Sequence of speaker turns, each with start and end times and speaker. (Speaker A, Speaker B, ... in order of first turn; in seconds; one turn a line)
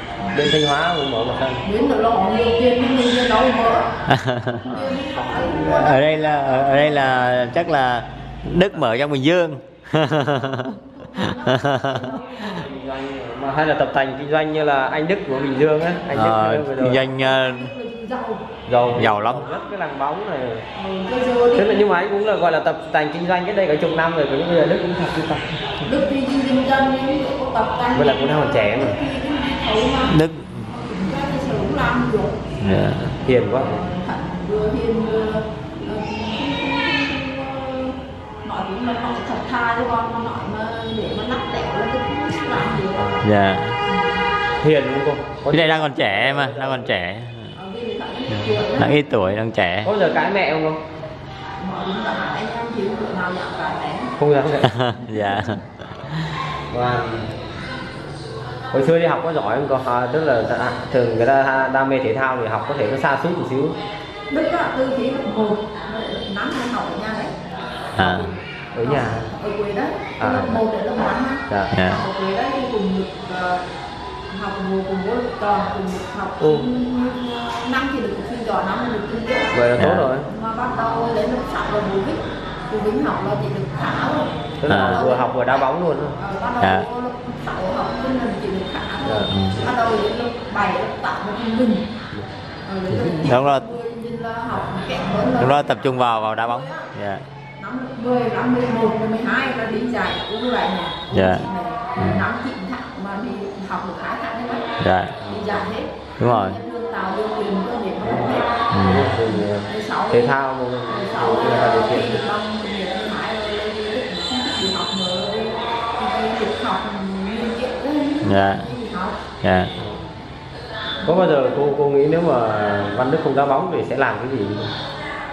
Speaker A: 0.3-1.6
Speaker B: 1.6-3.9
Speaker C: 4.1-4.8
Speaker B: 4.6-6.9
Speaker C: 5.5-12.0
Speaker B: 10.2-12.5
Speaker A: 12.2-17.0
Speaker C: 16.1-17.7
Speaker B: 17.1-18.5
Speaker A: 18.7-20.6
Speaker C: 18.9-19.5
Speaker B: 20.7-21.9
Speaker A: 21.6-25.6
Speaker B: 25.8-32.4
Speaker A: 27.9-29.0
Speaker C: 30.1-30.6
Speaker C: 32.6-33.1
Speaker A: 33.2-33.7
Speaker B: 33.4-43.2
Speaker A: 43.0-43.2
Speaker C: 43.2-43.8
Speaker B: 43.9-44.2
Speaker A: 44.6-46.9
Speaker C: 45.5-47.5
Speaker B: 47.5-49.0
Speaker C: 48.3-49.9
Speaker A: 49.8-50.8
Speaker B: 51.6-54.1
Speaker A: 54.2-54.7
Speaker C: 54.6-56.3
Speaker B: 55.1-55.5
Speaker A: 56.7-57.3
Speaker A: 58.7-63.8
Speaker B: 64.3-67.3
Speaker B: 67.9-73.6
Speaker C: 68.0-68.3
Speaker A: 68.7-69.3
Speaker A: 70.2-70.6
Speaker C: 71.7-72.0
Speaker B: 74.3-91.9
Speaker A: 76.4-76.7
Speaker A: 79.5-80.3
Speaker C: 79.8-80.1
Speaker A: 84.6-86.2
Speaker C: 84.7-85.0
Speaker C: 86.6-86.8
Speaker A: 89.0-89.3
Speaker C: 89.3-89.6
Speaker B: 92.7-96.9
Speaker C: 92.9-93.7
Speaker C: 95.4-97.2
Speaker B: 97.6-104.7
Speaker C: 101.1-101.5
Speaker C: 102.0-102.2
Speaker C: 104.8-105.2
Speaker A: 105.2-105.6
Speaker B: 105.3-108.6
Speaker C: 106.2-106.6
Speaker A: 108.0-112.2
Speaker C: 108.7-109.1
Speaker B: 109.3-110.4
Speaker B: 110.9-119.2
Speaker C: 118.2-118.7
Speaker C: 119.4-119.7
Speaker A: 121.0-124.7